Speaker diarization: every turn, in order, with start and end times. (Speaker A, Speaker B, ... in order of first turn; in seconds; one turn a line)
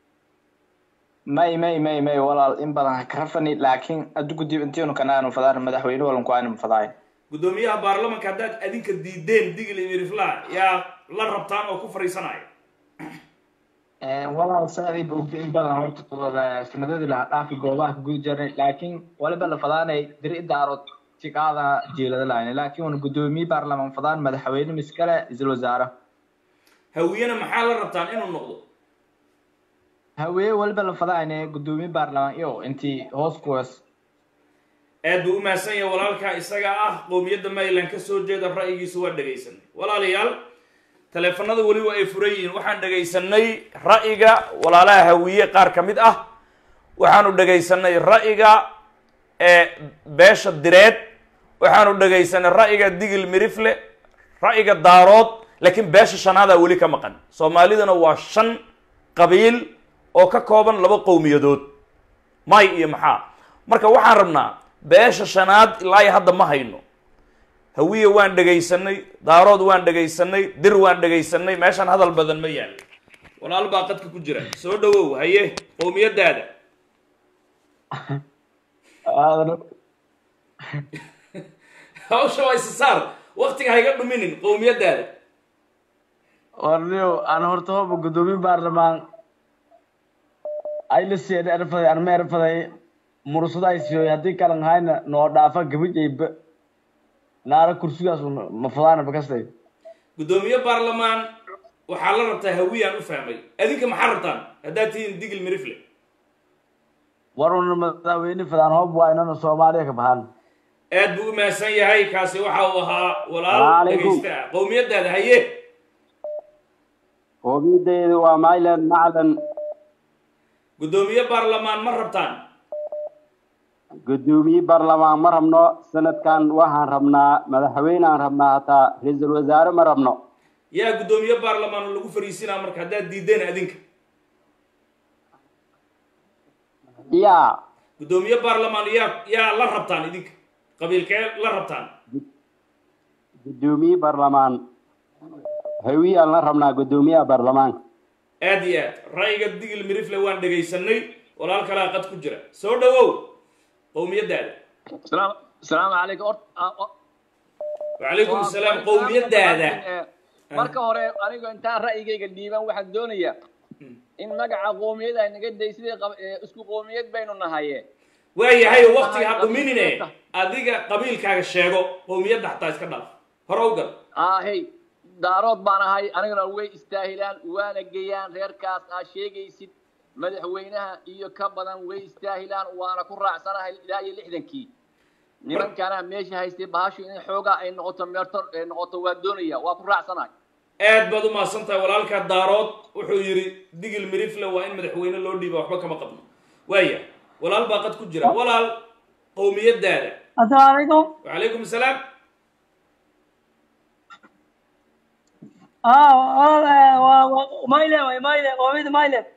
Speaker A: 1.3-6.9
Speaker B: 7.3-12.5
Speaker A: 14.0-25.9
Speaker B: 26.9-28.6
Speaker A: 30.2-33.8
Speaker B: 35.0-40.4
Speaker B: 41.1-46.2
Speaker B: 47.0-48.6
Speaker B: 49.4-51.0
Speaker B: 51.6-53.8
Speaker B: 54.4-58.5
Speaker B: 59.1-59.6
Speaker B: 60.1-61.7
Speaker B: 62.5-66.8
Speaker B: 67.8-72.8
Speaker B: 73.4-76.5
Speaker B: 82.1-85.1
Speaker C: 86.6-89.0
Speaker C: 90.9-92.7
Speaker C: 93.3-96.3
Speaker C: 97.5-99.5
Speaker B: 100.2-101.2
Speaker B: 101.9-105.8
Speaker C: 107.4-110.3
Speaker B: 110.9-115.5
Speaker D: 113.5-114.2
Speaker D: 117.4-119.3
Speaker B: 120.8-122.4
Speaker D: 124.1-130.2
Speaker B: 130.7-133.8
Speaker D: 137.1-137.5
Speaker B: 138.0-141.9
Speaker D: 143.4-144.6
Speaker D: 145.9-147.8
Speaker B: 148.4-153.3
Speaker B: 153.9-154.6
Speaker E: 155.1-156.9
Speaker B: 158.0-159.8
Speaker E: 158.2-160.0
Speaker E: 160.6-163.3
Speaker E: 164.2-167.8
Speaker B: 168.4-173.9
Speaker E: 168.6-170.1
Speaker E: 174.2-184.7
Speaker E: 185.5-190.3
Speaker B: 190.8-198.8
Speaker B: 199.4-200.2
Speaker F: 200.4-201.1
Speaker B: 201.2-202.0
Speaker F: 205.9-209.2